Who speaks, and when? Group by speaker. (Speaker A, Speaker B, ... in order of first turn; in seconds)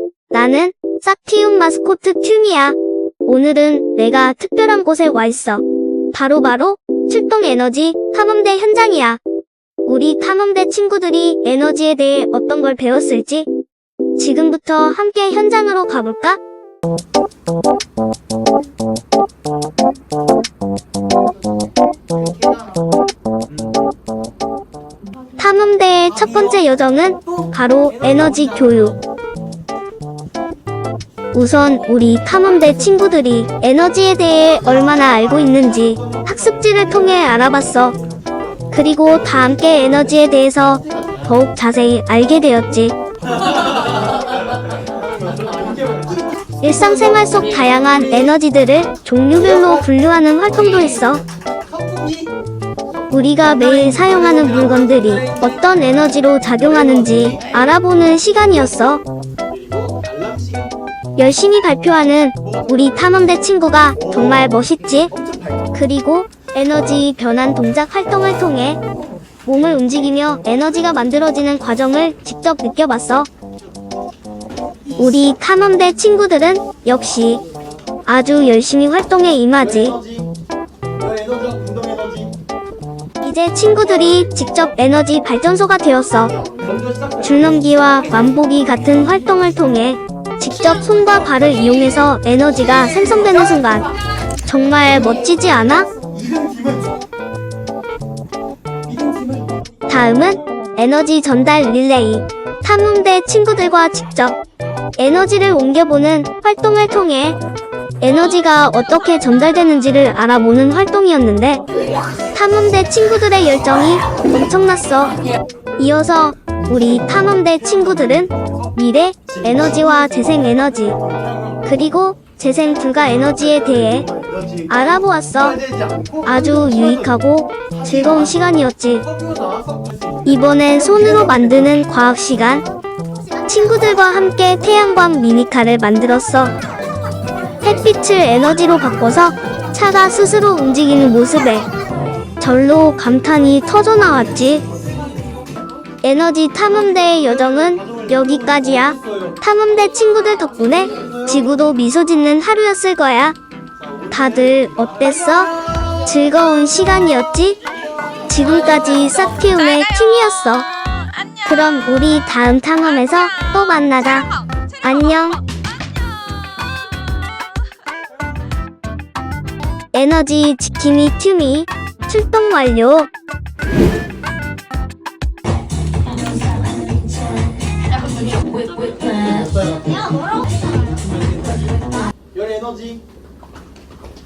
Speaker A: 0.3-9.2, 9.9-13.5, 14.2-16.4, 25.4-29.0, 31.3-38.0, 38.7-43.0, 46.6-51.2, 53.1-59.0, 61.2-65.1, 65.7-68.8, 69.5-73.3, 75.0-77.4, 78.1-80.0, 83.2-86.3, 87.2-93.9, 94.5-95.9, 99.9-104.4, 105.0-107.4, 108.0-111.6, 112.3-115.2, 115.8-121.0, 121.7-124.1, 124.7-125.6, 126.2-129.1, 130.3-132.6, 133.5-136.6, 137.6-141.7, 142.4-144.6, 146.0-153.4, 154.1-157.6, 158.3-160.7, 161.4-165.4, 169.9-173.1
Speaker B: 26.1-26.7, 27.3-28.9, 34.6-37.5, 40.8-41.4, 43.4-47.4, 49.4-49.8, 51.7-52.3, 53.5-55.9, 56.6-57.5, 59.5-60.8, 62.4-62.9, 64.0-64.5, 65.1-65.8, 74.9-75.3, 79.6-80.3, 81.0-82.4, 86.3-87.8, 96.0-97.0, 98.9-99.5, 116.7-118.7, 119.3-121.8, 123.2-127.2, 127.7-128.4, 129.1-131.7, 144.6-145.6, 146.7-149.4, 150.9-151.6, 153.8-156.0, 179.1-180.0, 180.8-183.0